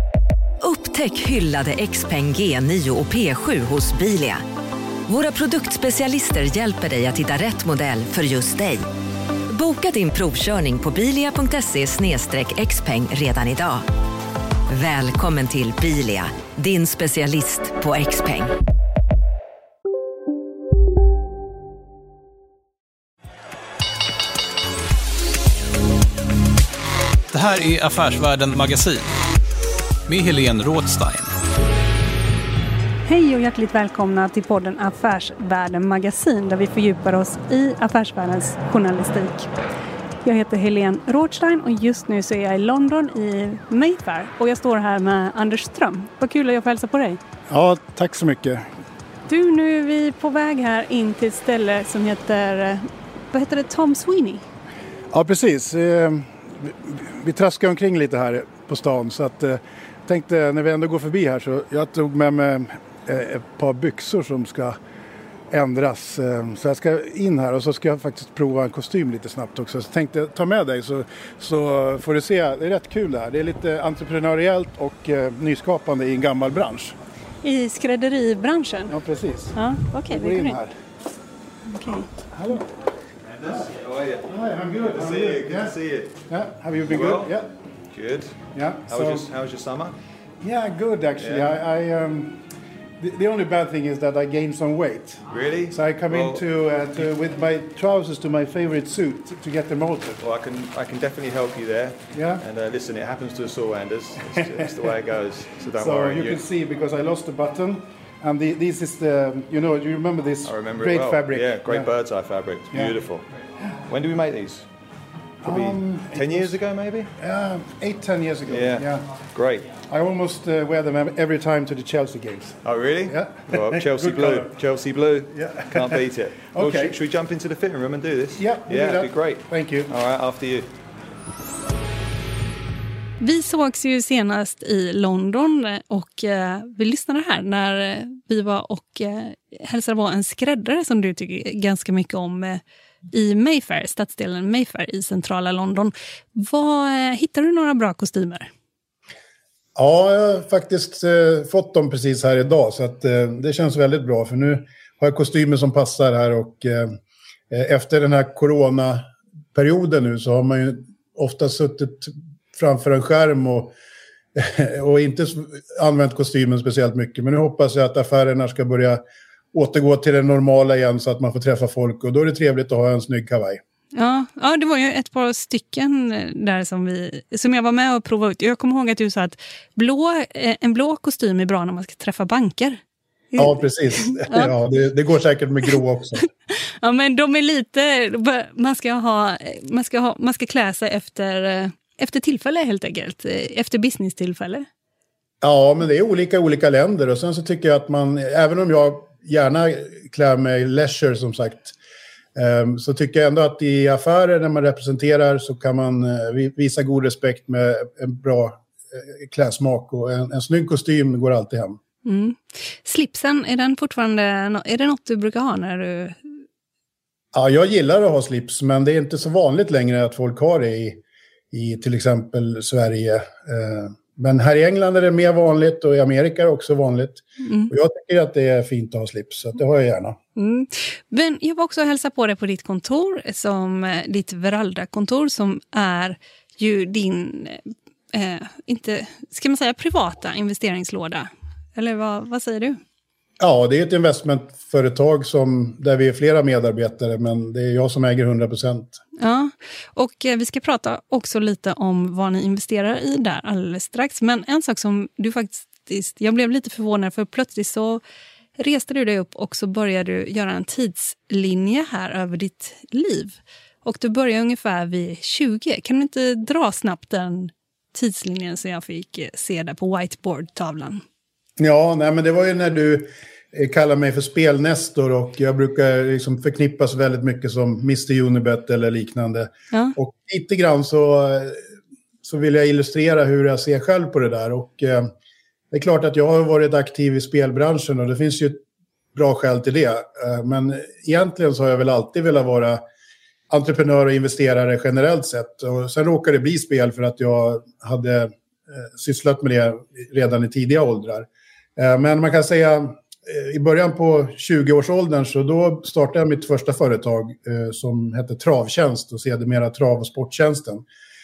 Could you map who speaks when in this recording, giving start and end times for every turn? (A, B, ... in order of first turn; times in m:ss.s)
0:00.6-0:04.4 A
0:05.1-0:08.8 A
0:09.5-0:13.9 A
0:14.7-0:18.5 A
0:27.3-0:29.0 B
0:30.1-0:31.3 B
0:33.0-0:39.5 C
0:40.2-0:47.2 C
0:47.5-0:48.7 D
0:49.3-0:54.4 C
0:55.1-1:04.8 D
1:05.5-1:17.0 D
1:17.4-1:18.9 C
1:18.9-1:20.8 D
1:19.6-1:20.6 C
1:21.7-1:22.1 C
1:22.3-1:22.7 D
1:23.3-1:24.3 E
1:24.2-1:27.5 D
1:24.8-1:26.2 E
1:26.8-1:27.3 E
1:27.9-1:28.3 E
1:28.6-1:29.3 D
1:28.9-1:29.9 E
1:30.4-1:32.4 D
1:31.2-1:31.5 E
1:33.0-1:40.2 D
1:35.3-1:36.4 E
1:40.2-1:46.4 E
1:42.1-1:42.4 D
1:44.3-1:44.9 D
1:45.7-1:51.9 D
1:50.4-1:53.2 E
1:53.9-1:54.6 E
1:55.4-1:57.1 E
1:55.4-1:56.6 D
1:57.2-1:59.0 D
1:58.5-1:59.8 E
1:59.8-2:04.5 D
2:02.6-2:10.7 E
2:05.3-2:07.0 D
2:08.4-2:09.9 D
2:13.2-2:28.5 C
2:29.8-2:37.0 D
2:37.5-2:43.7 D
2:44.4-2:53.6 D
2:53.9-3:02.8 C
3:03.3-3:04.5 C
3:03.4-3:06.3 D
3:06.5-3:14.6 C
3:15.4-3:21.8 D
3:22.4-3:31.8 D
3:32.0-3:36.2 C
3:37.3-3:50.2 D
3:47.4-3:47.7 C
3:50.4-4:02.8 C
4:03.4-4:09.0 D
4:09.2-4:18.0 C
4:18.6-4:31.0 C
4:31.6-4:41.6 D
4:42.2-4:45.1 D
4:45.7-4:48.6 D
4:49.2-4:52.8 D
4:53.5-5:10.9 D